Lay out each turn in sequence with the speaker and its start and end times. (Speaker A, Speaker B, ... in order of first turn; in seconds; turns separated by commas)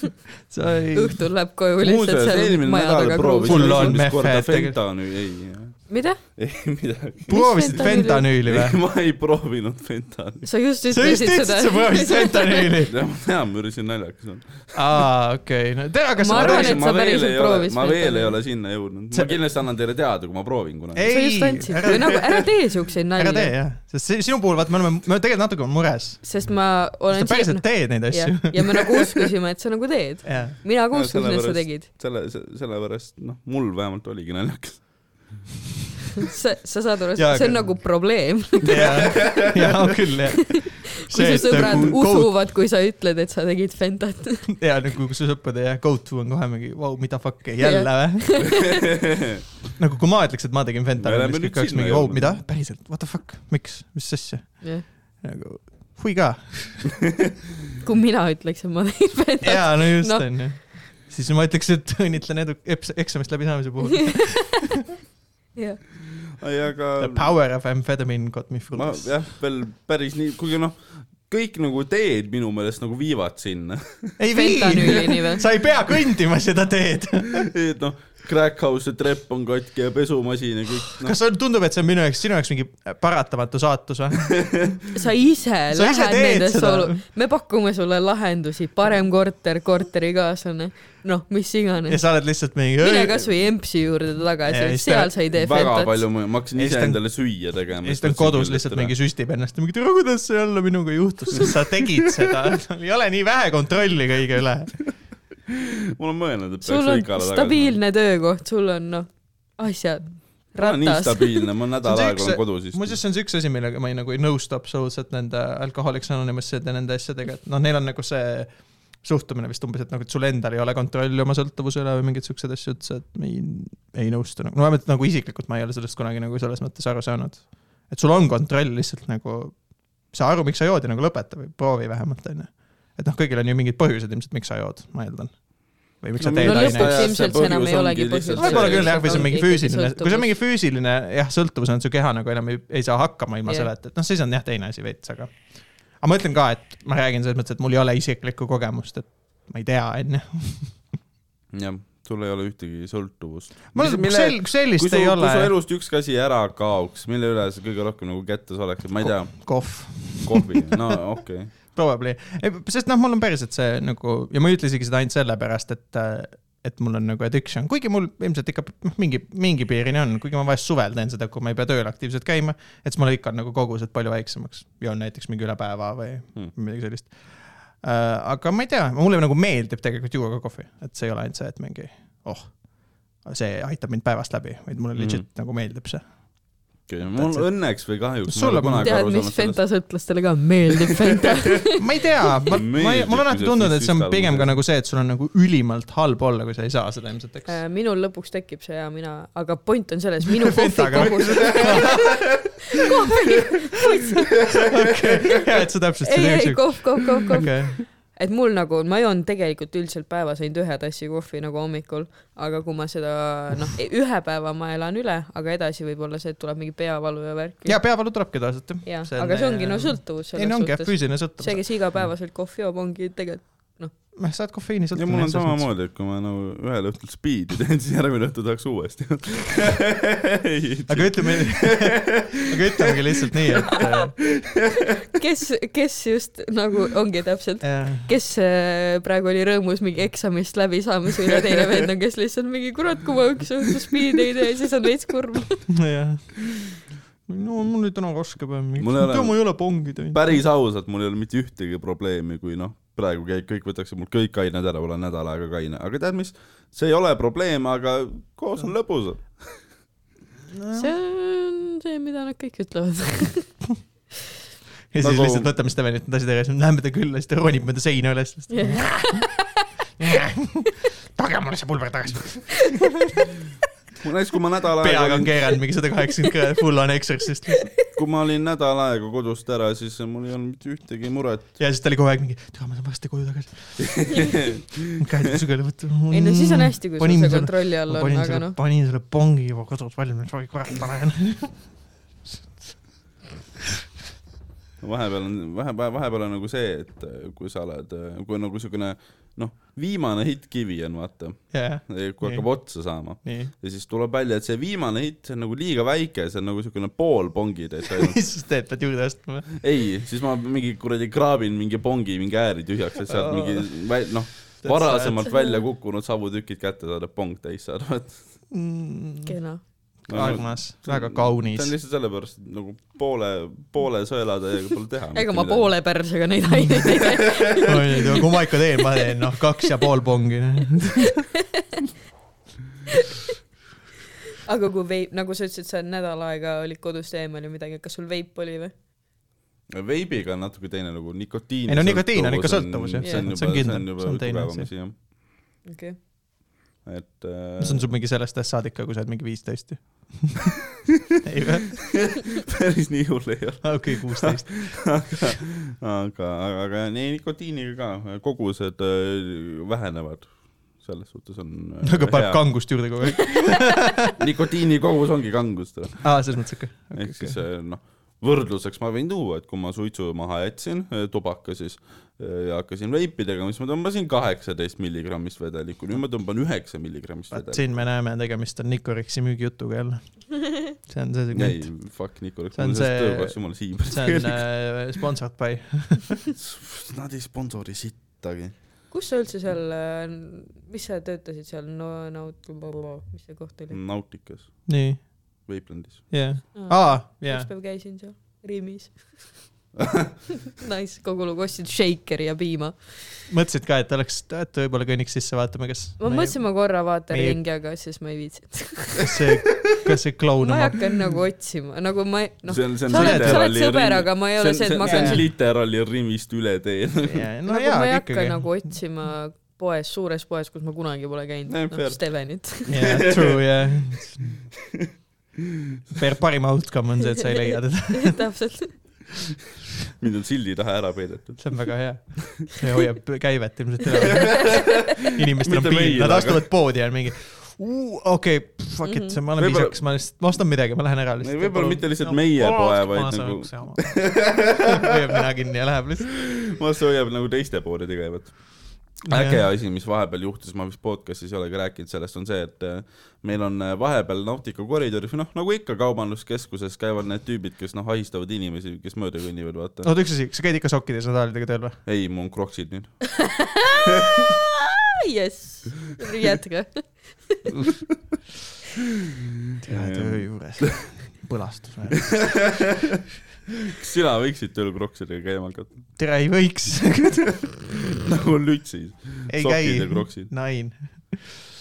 Speaker A: 0.5-1.2, Speaker B: 0.9-4.0, Speaker C: 1.8-10.5, Speaker A: 3.5-4.8, Speaker B: 5.9-6.2, Speaker A: 7.3-8.8, Speaker B: 7.3-8.3, Speaker B: 10.4-12.8, Speaker A: 10.9-12.9, Speaker C: 12.9-15.0, Speaker A: 14.7-16.8, Speaker B: 16.2-18.4, Speaker C: 16.3-21.1, Speaker A: 20.9-22.2, Speaker B: 21.1-23.5, Speaker A: 23.2-26.5, Speaker B: 26.2-31.9, Speaker A: 27.1-28.9, Speaker A: 30.2-30.6, Speaker C: 30.9-35.3, Speaker B: 36.2-39.1, Speaker A: 37.2-42.3, Speaker C: 39.0-39.7, Speaker B: 41.1-44.5, Speaker C: 41.4-41.9, Speaker A: 44.5-48.5, Speaker B: 47.6-48.8, Speaker C: 48.6-49.4, Speaker A: 49.8-57.0, Speaker C: 51.0-52.4, Speaker B: 57.8-60.5, Speaker A: 59.4-64.7, Speaker B: 64.1-64.4, Speaker B: 65.6-65.8, Speaker C: 66.3-67.3, Speaker A: 67.0-69.2, Speaker C: 68.7-74.2, Speaker A: 74.2-77.5, Speaker B: 74.3-75.5, Speaker C: 77.3-81.2, Speaker A: 81.0-84.8, Speaker B: 84.9-92.0, Speaker A: 85.7-87.0, Speaker A: 91.9-93.3, Speaker B: 92.8-96.0, Speaker A: 94.5-95.1, Speaker C: 95.3-98.9, Speaker A: 96.6-97.0, Speaker A: 97.8-104.8, Speaker C: 105.5-107.8, Speaker B: 106.6-111.5, Speaker C: 110.6-113.0, Speaker A: 111.8-137.2, Speaker C: 136.2-139.3, Speaker B: 136.4-140.3, Speaker A: 138.4-150.8, Speaker C: 151.5-161.5, Speaker A: 153.7-155.5, Speaker A: 159.1-160.7, Speaker A: 161.5-188.9, Speaker C: 184.9-185.2, Speaker C: 186.9-189.6, Speaker B: 188.8-191.8, Speaker A: 191.8-197.6, Speaker C: 192.5-194.6, Speaker B: 197.5-204.7, Speaker A: 200.3-202.3, Speaker A: 204.5-207.8, Speaker B: 206.0-217.9, Speaker A: 217.7-221.6, Speaker B: 218.8-223.9, Speaker A: 224.2-225.7, Speaker C: 224.9-232.9, Speaker A: 230.9-234.2, Speaker B: 235.1-245.7, Speaker A: 237.6-238.1, Speaker A: 245.7-246.6, Speaker A: 247.3-250.4, Speaker C: 248.8-259.6, Speaker A: 260.6-260.9, Speaker B: 260.8-263.6, Speaker A: 264.9-269.3, Speaker C: 265.0-265.5, Speaker B: 268.5-269.5, Speaker A: 270.0-273.2, Speaker C: 274.0-275.3, Speaker A: 274.8-277.7, Speaker C: 277.9-281.6, Speaker A: 281.6-284.4, Speaker C: 283.8-284.8, Speaker A: 285.0-291.6, Speaker B: 286.1-288.6, Speaker C: 294.8-308.2, Speaker A: 301.5-303.5, Speaker A: 308.0-309.5, Speaker C: 309.6-318.2, Speaker A: 313.1-313.9, Speaker A: 314.6-315.3, Speaker B: 315.3-315.6, Speaker A: 318.5-319.3, Speaker B: 319.3-319.6, Speaker A: 320.1-321.7, Speaker C: 320.1-325.8, Speaker B: 325.1-329.0, Speaker A: 327.6-331.2, Speaker B: 334.5-338.7, Speaker C: 339.7-345.0, Speaker A: 341.7-344.7, Speaker B: 343.0-343.3, Speaker B: 345.6-346.0, Speaker C: 346.8-347.9, Speaker A: 347.6-350.6, Speaker A: 351.2-351.9, Speaker C: 351.9-362.6, Speaker A: 353.6-355.1, Speaker A: 361.8-364.1, Speaker C: 364.2-366.3, Speaker A: 366.0-367.4, Speaker C: 366.9-377.7, Speaker A: 377.3-386.2, Speaker C: 381.3-384.5, Speaker C: 386.4-388.6, Speaker B: 388.9-393.8, Speaker C: 393.7-394.7, Speaker A: 394.7-395.5, Speaker C: 395.4-396.2, Speaker A: 396.1-397.5, Speaker B: 396.5-399.5, Speaker C: 399.8-400.1, Speaker B: 400.5-403.1, Speaker A: 403.3-407.4, Speaker B: 406.0-409.2, Speaker A: 409.0-410.9, Speaker B: 410.4-415.3, Speaker C: 412.5-417.3, Speaker A: 412.9-413.5, Speaker A: 414.8-415.3, Speaker A: 417.0-418.7, Speaker B: 417.5-423.0, Speaker C: 421.5-423.4, Speaker A: 422.7-424.3, Speaker A: 425.9-428.2, Speaker B: 427.2-429.0, Speaker C: 430.0-431.6, Speaker A: 431.4-446.1, Speaker C: 434.3-436.5, Speaker B: 438.9-439.2, Speaker C: 439.4-439.8, Speaker C: 441.2-444.6, Speaker C: 446.2-459.9, Speaker A: 449.1-449.4, Speaker A: 459.8-461.8, Speaker C: 461.9-463.1, Speaker B: 463.2-467.5, Speaker A: 469.6-472.5, Speaker C: 469.7-470.7, Speaker C: 472.1-473.0, Speaker C: 473.7-475.9, Speaker A: 476.0-477.5, Speaker C: 478.0-480.3, Speaker A: 479.3-481.5